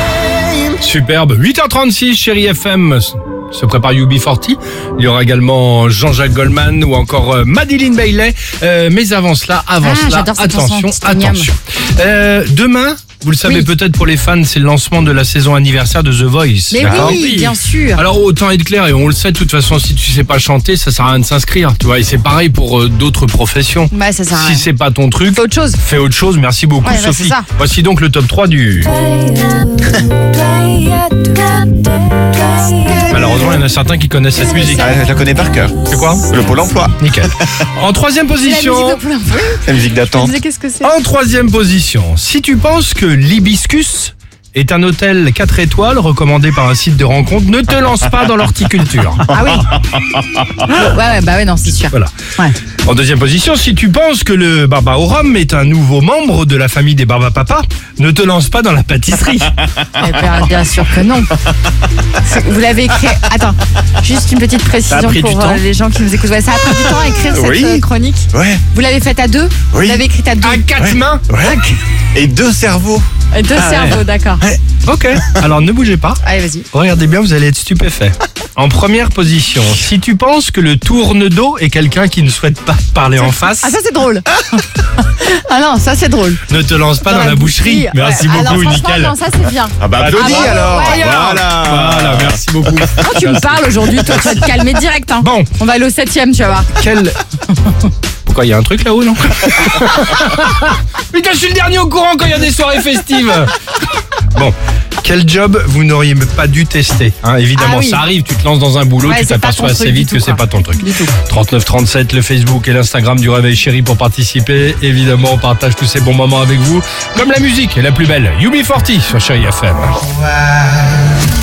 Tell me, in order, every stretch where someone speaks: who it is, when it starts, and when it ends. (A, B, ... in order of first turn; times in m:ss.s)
0:00.8-0:29.0 A
0:09.8-0:11.5 B
0:16.7-0:18.0 B
0:23.9-0:24.7 B
0:25.3-0:25.8 B
0:26.8-0:27.5 B
0:29.0-0:29.8 B
0:30.5-0:33.4 B
0:33.1-0:35.0 A
0:34.6-0:37.5 C
0:35.8-0:36.3 A
0:37.0-0:39.0 A
0:38.4-0:40.9 B
0:39.6-0:40.4 C
0:40.8-0:49.3 A
0:49.3-0:49.8 B
0:50.6-0:52.6 B
0:52.8-0:59.6 A
1:00.0-1:01.4 B
1:02.2-1:10.6 B
1:04.9-1:05.6 A
1:07.1-1:08.6 C
1:09.7-1:10.0 C
1:10.4-1:11.3 A
1:10.8-1:11.6 C
1:11.4-1:11.8 B
1:12.2-1:14.6 C
1:13.3-1:14.4 B
1:14.8-1:23.8 A
1:16.2-1:16.7 B
1:23.2-1:26.4 B
1:26.5-1:29.2 A
1:27.0-1:31.1 B
1:29.8-1:32.9 C
1:29.9-1:34.3 A
1:33.0-1:36.7 B
1:35.2-1:35.5 A
1:36.8-1:37.2 A
1:38.2-1:43.5 A
1:44.3-2:00.0 A
1:47.6-1:48.0 B
1:49.0-1:51.2 B
2:00.3-2:00.9 C